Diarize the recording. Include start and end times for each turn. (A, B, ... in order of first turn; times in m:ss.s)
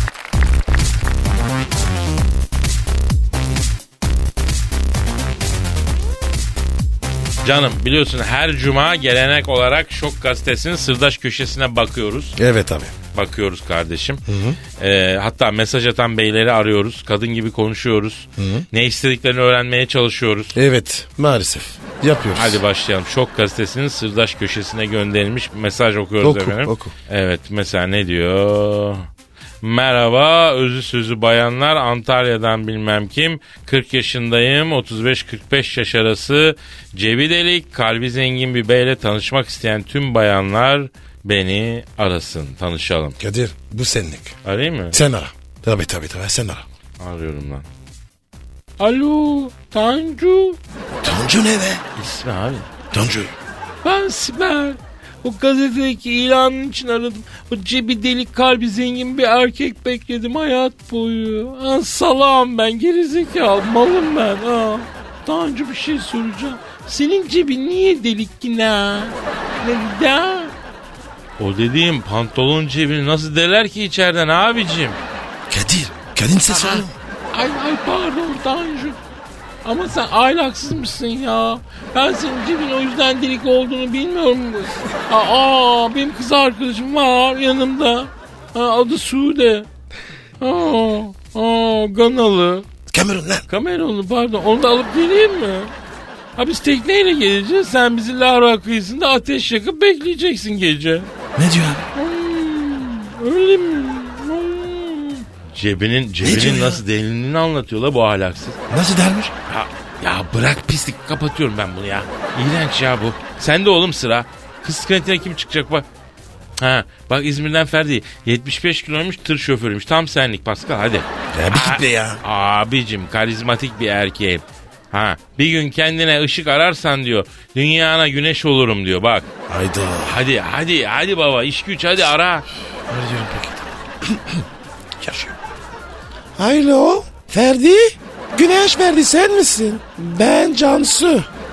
0:07.4-0:12.4 A
0:12.4-0:12.9 B
0:13.1-0:14.2 A
0:14.3-0:14.6 B
0:14.8-0:20.6 A
0:18.4-0:18.6 B
0:20.5-0:22.6 B
0:22.3-0:29.1 A
0:26.2-0:26.9 B
0:29.6-0:43.2 A
0:43.2-0:44.4 B
0:44.4-0:45.0 A
0:44.9-0:46.6 B
0:47.0-0:47.6 A
0:48.8-0:50.6 A
0:50.9-0:51.8 B
0:52.0-0:52.8 A
0:52.9-0:53.3 B
0:53.8-1:10.5 A
1:11.4-1:15.0 A
1:15.5-1:17.0 B
1:16.5-1:19.0 A
1:19.6-1:29.7 A
1:30.4-1:32.6 A
1:32.9-1:33.4 B
1:33.5-1:35.7 A
1:36.4-1:41.1 A
1:41.3-1:41.8 B
1:41.9-1:48.6 A
1:46.2-1:46.8 B
1:48.7-1:49.3 B
1:49.5-1:55.8 A
1:56.6-2:09.3 A
2:01.3-2:02.2 B
2:09.5-2:10.2 B
2:10.0-2:12.4 A
2:12.9-2:14.4 B
2:15.0-2:15.3 B
2:16.4-2:21.3 B